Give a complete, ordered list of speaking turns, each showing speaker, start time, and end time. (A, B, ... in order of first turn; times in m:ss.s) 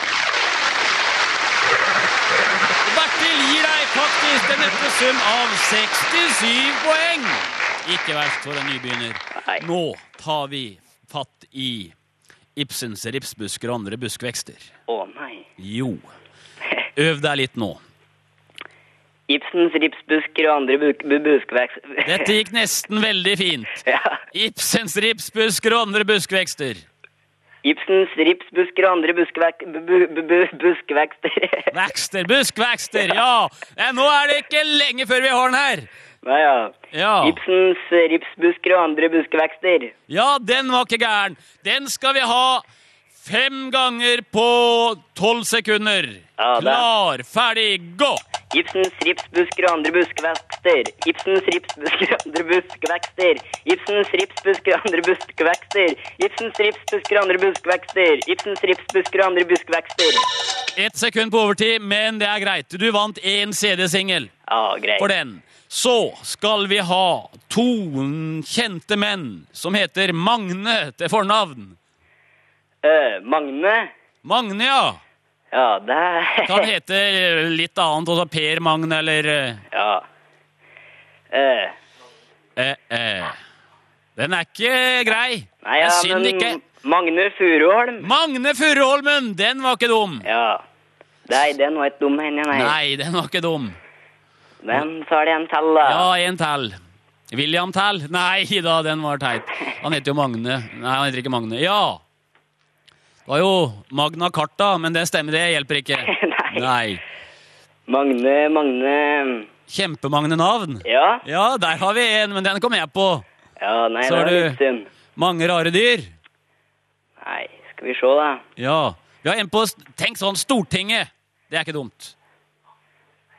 0:02.9-0:11.9 A
0:09.4-0:09.6 B
0:12.6-0:14.7 A
0:14.9-0:15.5 B
0:15.6-0:16.1 A
0:17.0-0:17.8 A
0:19.3-0:22.3 B
0:22.0-0:26.8 A
0:23.8-0:24.2 B
0:27.6-0:31.7 B
0:31.7-0:35.9 A
0:36.2-0:39.9 B
0:36.9-0:37.4 A
0:40.1-0:42.6 A
0:43.2-0:48.2 A
0:46.4-0:46.8 B
0:48.5-1:00.3 B
1:00.8-1:04.3 A
1:04.5-1:05.1 B
1:05.0-1:11.8 A
1:12.8-1:13.9 B
1:14.2-1:15.0 A
1:15.5-1:16.7 B
1:16.4-1:19.6 A
1:19.7-1:20.0 B
1:21.3-1:21.7 B
1:22.6-1:23.4 A
1:24.2-1:26.6 A
1:25.6-1:28.0 B
1:28.0-1:30.2 A
1:30.2-1:30.6 B
1:31.3-1:32.7 B
1:32.5-1:33.8 A
1:34.6-1:36.0 B
1:35.8-1:36.8 A
1:37.3-1:42.0 A
1:43.2-1:47.0 A
1:46.0-1:46.7 B
1:47.9-1:49.5 B
1:49.7-1:53.2 A
1:50.8-1:51.2 B
1:53.6-1:54.9 B
1:54.0-1:54.6 A
1:55.2-1:56.1 A
1:57.2-1:58.4 B
1:58.6-2:02.1 A